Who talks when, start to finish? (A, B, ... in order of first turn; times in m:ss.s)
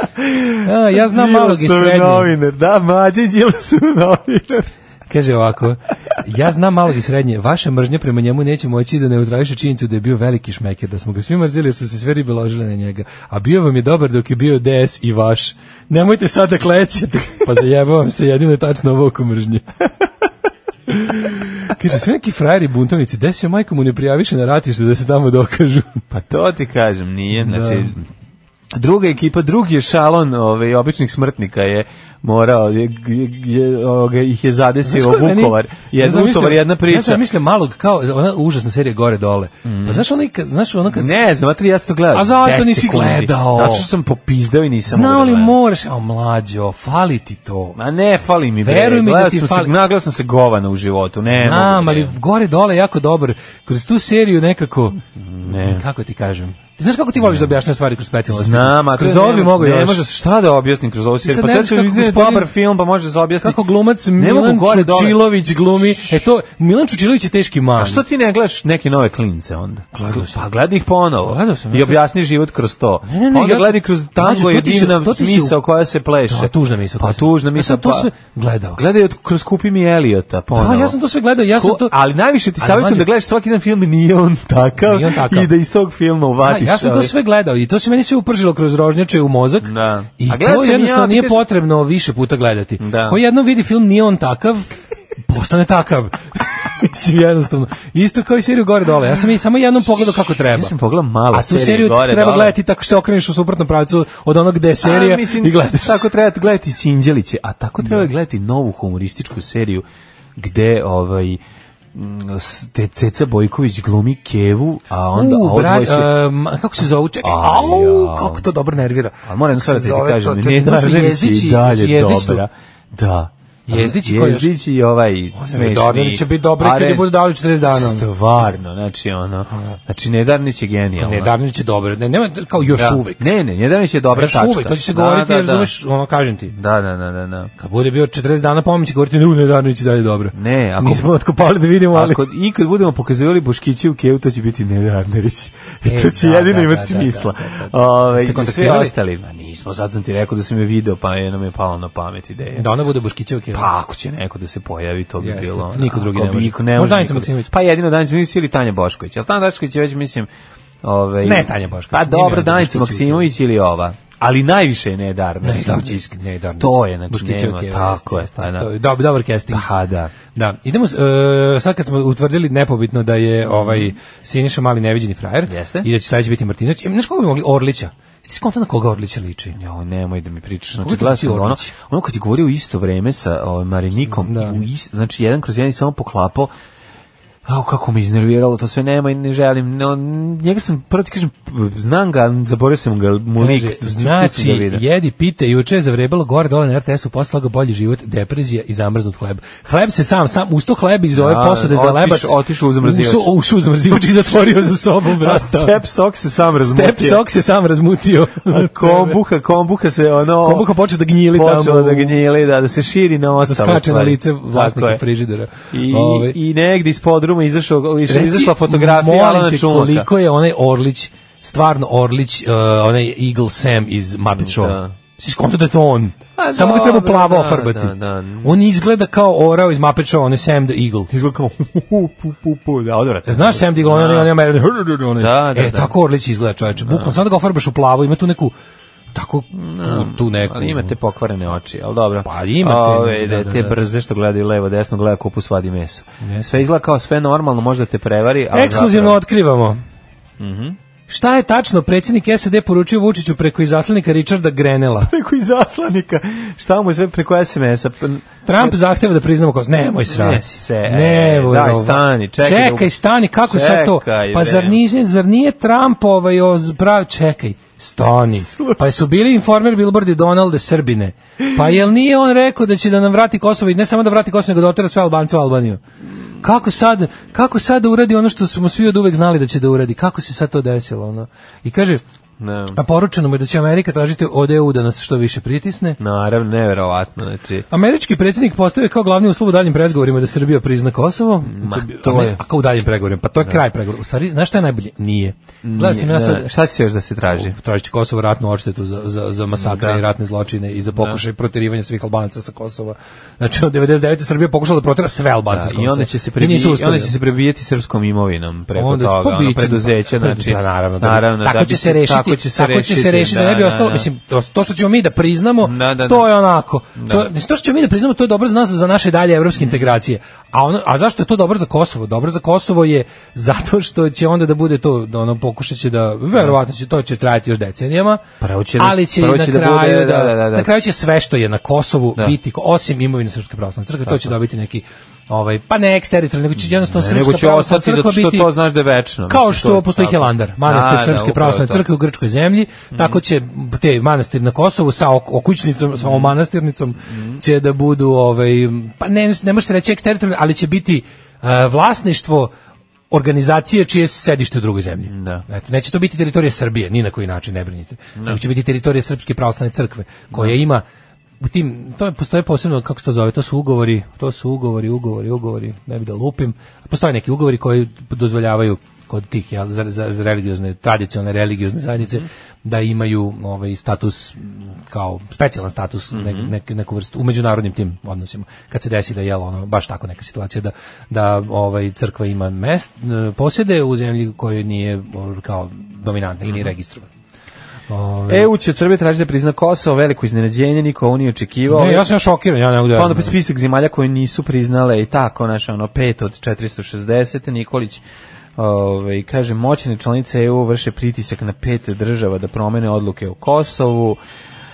0:00.2-0:04.7 A
0:00.6-0:02.3 B
0:05.1-0:19.7 B
0:20.9-0:26.0 B
0:26.1-0:28.0 A
0:27.4-0:27.9 B
0:28.7-0:37.2 A
0:34.9-0:41.1 B
0:39.6-0:40.0 A
0:40.9-0:45.6 A
0:42.1-0:43.9 B
0:44.9-0:47.8 B
0:47.8-0:52.1 A
0:48.6-0:49.7 B
0:51.3-1:00.0 B
0:55.2-0:55.8 A
0:57.2-0:57.5 A
0:58.3-1:03.6 A
1:01.2-1:02.5 B
1:03.4-1:08.0 B
1:04.2-1:05.3 A
1:05.9-1:06.2 A
1:07.8-1:18.1 A
1:09.9-1:10.4 B
1:11.2-1:12.0 B
1:13.1-1:15.6 B
1:16.3-1:18.8 B
1:18.8-1:21.0 A
1:20.6-1:21.9 B
1:21.6-1:27.1 A
1:22.6-1:23.1 B
1:24.8-1:25.5 B
1:26.4-1:34.7 B
1:29.6-1:31.4 A
1:32.8-1:33.2 A
1:35.3-1:40.7 B
1:40.5-1:42.6 A
1:41.3-1:46.0 B
1:44.8-1:49.8 A
1:47.8-1:48.1 B
1:50.4-1:51.4 A
1:51.9-1:56.1 A
1:55.2-2:02.4 B
1:57.2-1:58.5 A
1:59.2-2:11.3 A
2:03.7-2:04.5 B
2:05.4-2:08.1 B
2:11.0-2:13.3 B
2:12.6-2:15.7 A
2:14.1-2:16.6 B
2:16.5-2:17.5 A
2:17.6-2:22.2 B
2:20.4-2:21.1 A
2:21.9-2:32.7 A
2:25.8-2:28.9 B
2:32.5-2:33.7 B
2:33.5-2:40.3 A
2:35.2-2:37.5 B
2:40.8-2:48.7 A
2:41.2-2:43.3 B
2:45.4-2:49.7 B
2:49.5-2:50.1 A
2:50.4-2:59.6 B
2:53.5-2:53.9 A
2:55.5-2:55.9 A
2:59.6-3:06.5 A
3:00.8-3:01.8 B
3:04.1-3:04.6 B
3:07.4-3:14.8 A
3:13.4-3:25.8 B
3:21.2-3:23.3 A
3:23.9-3:24.5 A
3:25.1-3:27.2 A
3:26.7-3:29.2 B
3:28.5-3:30.7 A
3:30.4-3:32.2 B
3:31.3-3:35.0 A
3:33.4-3:36.4 B
3:35.7-3:40.1 A
3:38.1-3:51.1 B
3:44.3-3:44.9 A
3:46.4-3:48.6 A
3:51.1-3:54.3 A
3:53.3-3:58.5 B
3:55.2-3:55.9 A
3:56.8-3:57.2 A
3:59.1-4:01.0 B
3:59.5-4:09.2 A
4:02.2-4:03.8 B
4:06.2-4:06.6 B
4:08.5-4:09.8 B
4:10.4-4:10.8 A
4:11.1-4:15.1 B
4:15.0-4:18.8 A
4:18.5-4:35.8 B
4:20.1-4:22.9 A
4:23.5-4:24.8 A
4:28.5-4:28.9 A
4:36.4-4:42.0 B
4:42.4-4:42.8 A
4:42.7-4:46.0 B
4:46.0-4:47.7 A
4:47.7-4:56.5 B
4:51.5-4:52.4 A
4:55.6-4:57.6 A
4:57.3-5:07.2 B
4:59.6-5:00.0 A
5:05.5-5:14.1 A
5:08.8-5:28.2 B
5:15.6-5:16.3 A
5:17.0-5:17.3 A
5:19.6-5:19.8 A
5:28.4-5:30.7 A
5:28.8-5:38.5 B
5:34.1-5:34.3 A
5:36.9-5:41.9 A
5:39.3-5:52.5 B
5:42.9-5:43.2 A
5:46.0-5:46.3 A
5:47.1-5:47.4 A
5:53.1-6:00.8 B
5:55.1-5:55.4 A
6:01.4-6:27.1 B
6:16.1-6:16.5 A
6:27.9-6:28.5 B
6:28.3-6:32.1 A
6:31.7-6:33.4 B
6:32.9-6:38.0 A
6:38.6-6:44.2 A